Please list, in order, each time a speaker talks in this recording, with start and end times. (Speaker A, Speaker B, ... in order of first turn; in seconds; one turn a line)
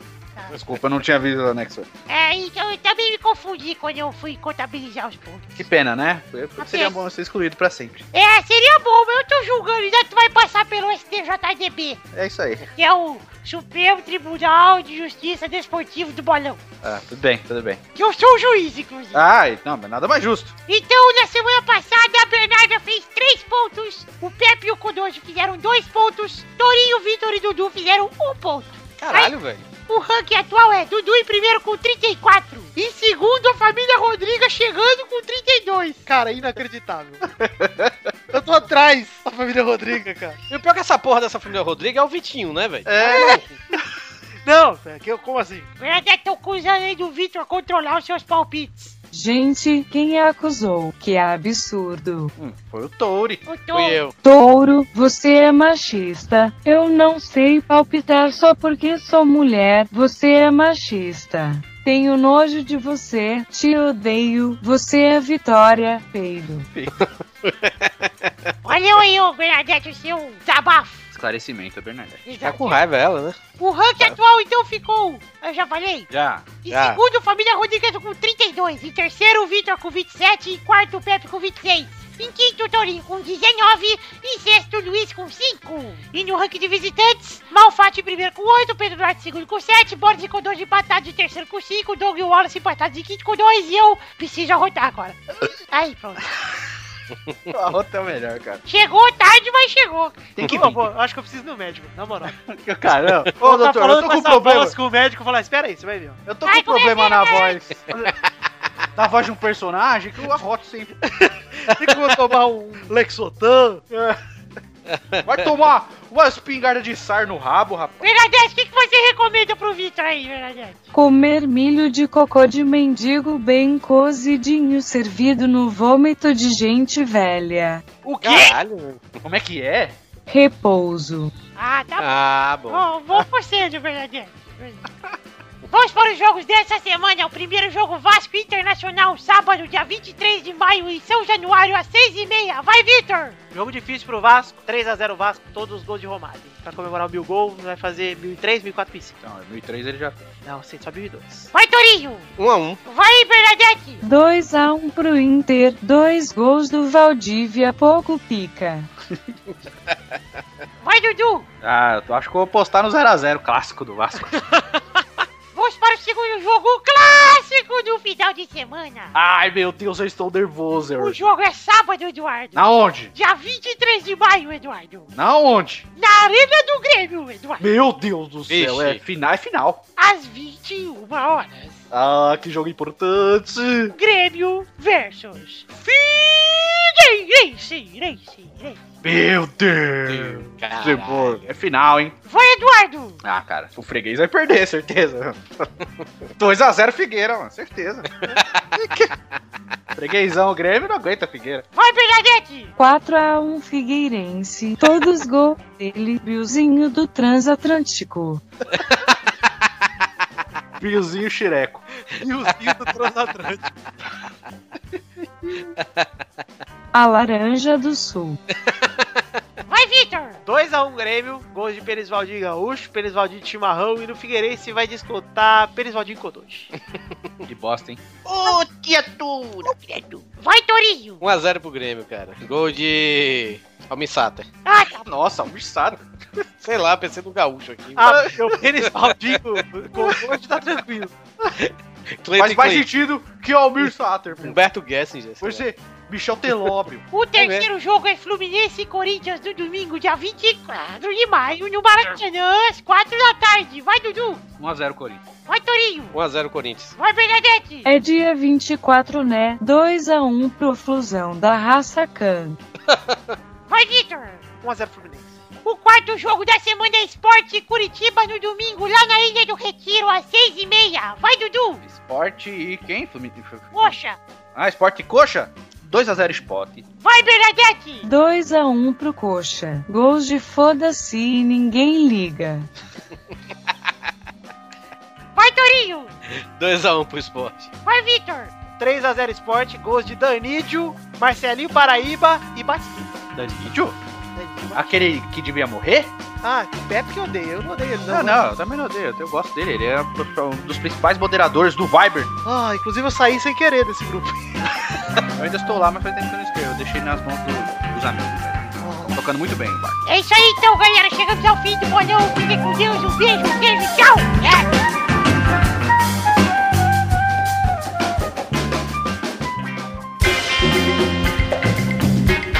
Speaker A: 0.5-1.9
Speaker B: 2.1-5.7
Speaker A: 5.6-8.1
Speaker B: 6.6-6.9
Speaker B: 8.1-12.0
Speaker A: 12.1-12.7
Speaker B: 12.8-16.6
Speaker A: 16.8-17.8
Speaker B: 17.9-19.2
Speaker A: 19.1-20.6
Speaker B: 20.7-29.4
Speaker C: 29.0-29.7
Speaker B: 29.9-36.0
Speaker D: 36.1-37.2
Speaker A: 37.4-38.1
Speaker D: 38.3-40.4
Speaker C: 40.5-43.5
Speaker A: 42.9-43.4
Speaker D: 44.5-45.7
Speaker B: 45.8-49.0
Speaker E: 49.1-52.3
Speaker A: 52.4-53.4
Speaker B: 53.5-54.1
Speaker C: 53.7-54.1
Speaker E: 54.2-66.7
Speaker A: 66.7-67.1
Speaker C: 67.4-68.5
Speaker B: 68.7-71.0
Speaker A: 71.1-72.2
Speaker B: 72.3-72.8
Speaker C: 72.4-73.4
Speaker B: 73.6-76.1
Speaker A: 76.1-76.5
Speaker B: 76.6-96.3
Speaker C: 76.7-77.0
Speaker A: 97.5-98.6
Speaker B: 98.7-100.3
Speaker A: 100.4-100.9
Speaker D: 100.4-102.3
Speaker A: 102.3-104.8
Speaker D: 103.4-106.2
Speaker A: 106.3-108.1
Speaker B: 106.5-107.6
Speaker A: 109.0-111.0
Speaker D: 111.1-113.8
Speaker A: 111.7-112.3
Speaker A: 113.9-114.2
Speaker C: 114.9-115.2
Speaker A: 115.2-118.1
Speaker B: 118.0-120.8
Speaker E: 120.9-127.8
Speaker A: 128.2-128.6
Speaker C: 128.2-129.2
Speaker A: 129.2-130.0
Speaker E: 130.3-131.3
Speaker B: 131.6-132.2
Speaker C: 132.0-132.8
Speaker B: 132.7-134.9
Speaker B: 135.7-143.4
Speaker D: 143.5-149.2
Speaker A: 149.2-150.2
Speaker D: 150.4-151.5
Speaker B: 151.5-152.3
Speaker C: 152.4-152.8
Speaker B: 152.8-154.0
Speaker E: 154.0-158.9
Speaker B: 160.8-161.5
Speaker A: 161.6-164.4
Speaker B: 165.5-169.1
Speaker A: 169.1-171.2
Speaker B: 171.0-175.1
Speaker A: 172.6-173.1
Speaker A: 175.2-175.9
Speaker B: 176.0-177.7
Speaker A: 177.6-179.8
Speaker C: 178.5-179.0
Speaker B: 180.0-181.8
Speaker A: 181.9-184.0
Speaker B: 183.9-188.8
Speaker A: 189.0-192.2
Speaker C: 190.1-191.4
Speaker B: 192.3-193.2
Speaker A: 193.2-195.7
Speaker A: 196.4-199.1
Speaker A: 199.9-201.7
Speaker B: 201.8-202.7
Speaker E: 202.8-208.4
Speaker A: 210.8-211.8
Speaker D: 212.2-213.7
Speaker C: 215.8-216.1
Speaker E: 216.9-218.4
Speaker C: 218.7-219.1
Speaker B: 219.7-220.4
Speaker D: 220.4-226.7
Speaker A: 227.5-230.2
Speaker B: 230.4-231.2
Speaker C: 231.2-234.5
Speaker B: 234.7-235.1
Speaker A: 235.0-236.0
Speaker C: 236.6-238.3
Speaker D: 238.0-241.1
Speaker A: 238.1-238.6
Speaker C: 241.5-242.9
Speaker A: 242.4-244.6
Speaker C: 244.4-245.7
Speaker A: 245.4-247.0
Speaker B: 247.1-254.4
Speaker C: 247.4-247.7
Speaker A: 254.6-255.2
Speaker B: 255.5-256.2
Speaker C: 256.1-257.0
Speaker B: 257.0-257.9
Speaker E: 257.9-262.6
Speaker C: 262.9-263.3
Speaker B: 263.7-264.4
Speaker D: 264.6-265.4
Speaker B: 265.6-271.8
Speaker A: 271.8-274.0
Speaker B: 273.7-274.2
Speaker A: 274.6-276.9
Speaker B: 277.0-278.1
Speaker E: 278.0-282.7
Speaker B: 285.4-286.1
Speaker C: 286.3-287.7
Speaker B: 287.9-288.5
Speaker D: 288.8-293.1
Speaker A: 293.3-294.0
Speaker D: 294.4-294.9
Speaker A: 294.7-296.1
Speaker D: 296.4-298.5
Speaker A: 298.1-302.4
Speaker D: 302.4-304.7
Speaker A: 305.3-310.0
Speaker D: 308.8-309.2
Speaker B: 310.1-314.8